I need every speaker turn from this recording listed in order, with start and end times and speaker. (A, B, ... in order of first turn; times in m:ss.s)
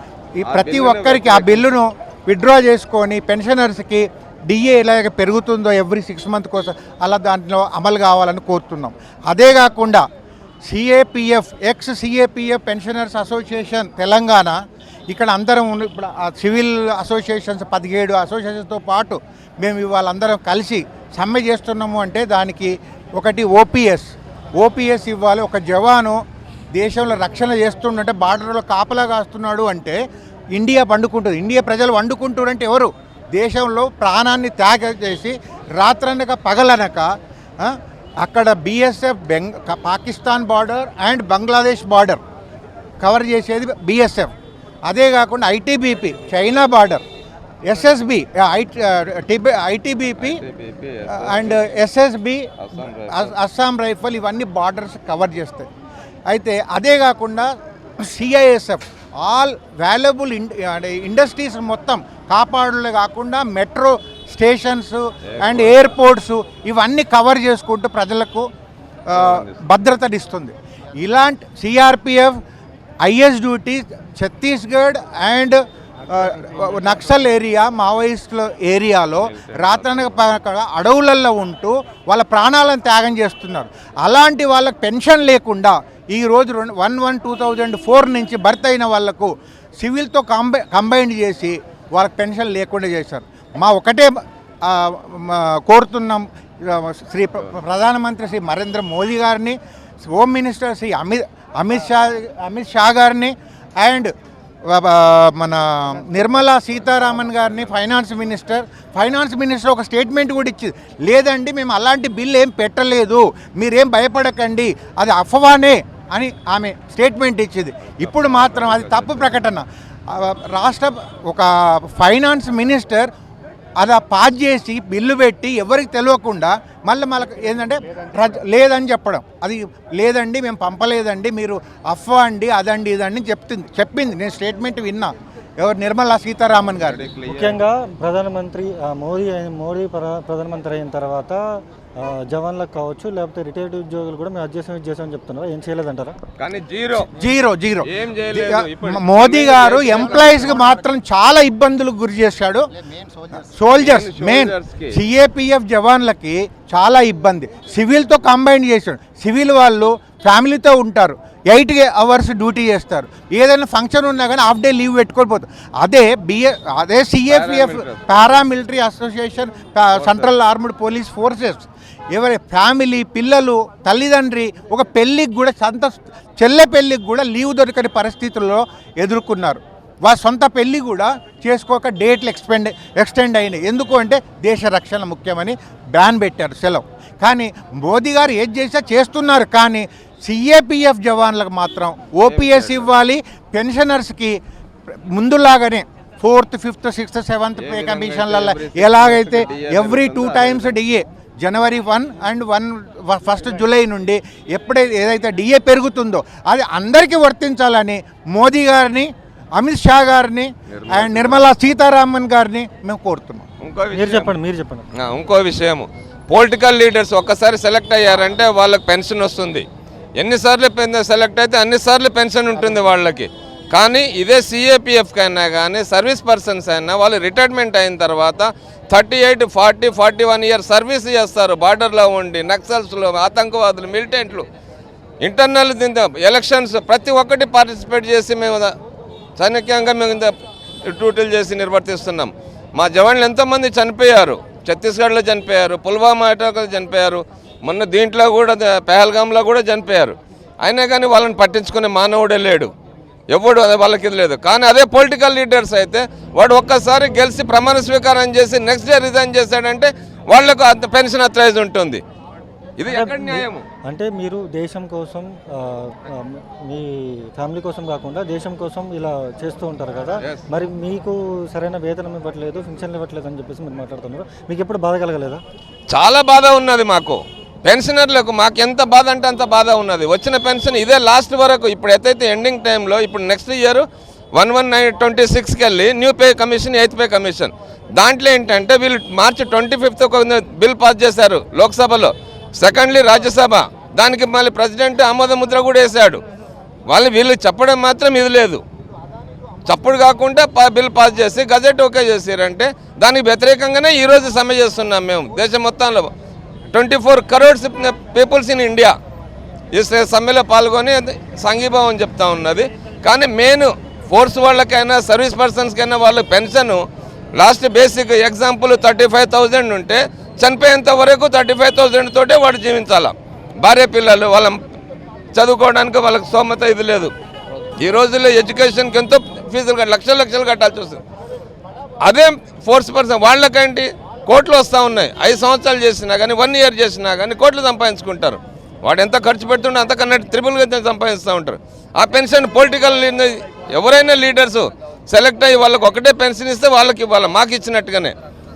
0:00.4-0:10.0 A
0:00.5-0:01.7 B
0:10.7-0:14.6 A
0:15.1-0:26.2 A
0:26.7-0:30.0 A
0:30.5-0:42.2 A
0:43.0-0:44.3 A
0:44.9-0:47.0 A
0:47.6-0:50.4 A
0:50.2-0:51.6 B
0:51.1-0:55.7 A
0:52.6-0:53.4 B
0:56.3-1:08.5 A
1:05.3-1:06.0 B
1:09.1-1:12.4 A
1:09.1-1:09.6 B
1:13.0-1:44.1 A
1:19.2-1:20.3 B
1:44.6-2:03.1 A
1:58.0-1:59.5 B
2:03.8-2:17.0 A
2:16.8-2:17.6 B
2:17.3-2:26.2 C
2:26.4-2:27.1 B
2:27.1-2:32.6 A
2:27.8-2:30.7 B
2:33.3-3:14.4 A
2:33.8-2:35.0 B
2:47.3-2:48.4 B
2:49.9-2:50.3 B
3:12.2-3:12.9 B
3:14.9-3:33.4 A
3:17.6-3:20.8 B
3:30.7-3:31.5 B
3:33.6-3:34.3 B
3:33.9-3:34.9 C
3:35.0-3:39.7 B
3:40.2-3:54.5 B
3:55.2-3:58.7 B
3:59.4-4:12.7 B
4:13.3-4:22.0 B
4:22.8-4:23.6 B
4:22.9-4:35.4 C
4:35.9-4:43.8 B
4:44.4-4:56.2 B
4:56.9-4:58.6 B
4:59.6-5:06.1 B
5:06.7-5:09.0 B
5:09.7-5:16.8 B
5:17.4-5:24.6 B
5:25.3-5:27.1 B
5:27.8-5:31.0 B
5:32.0-5:48.2 B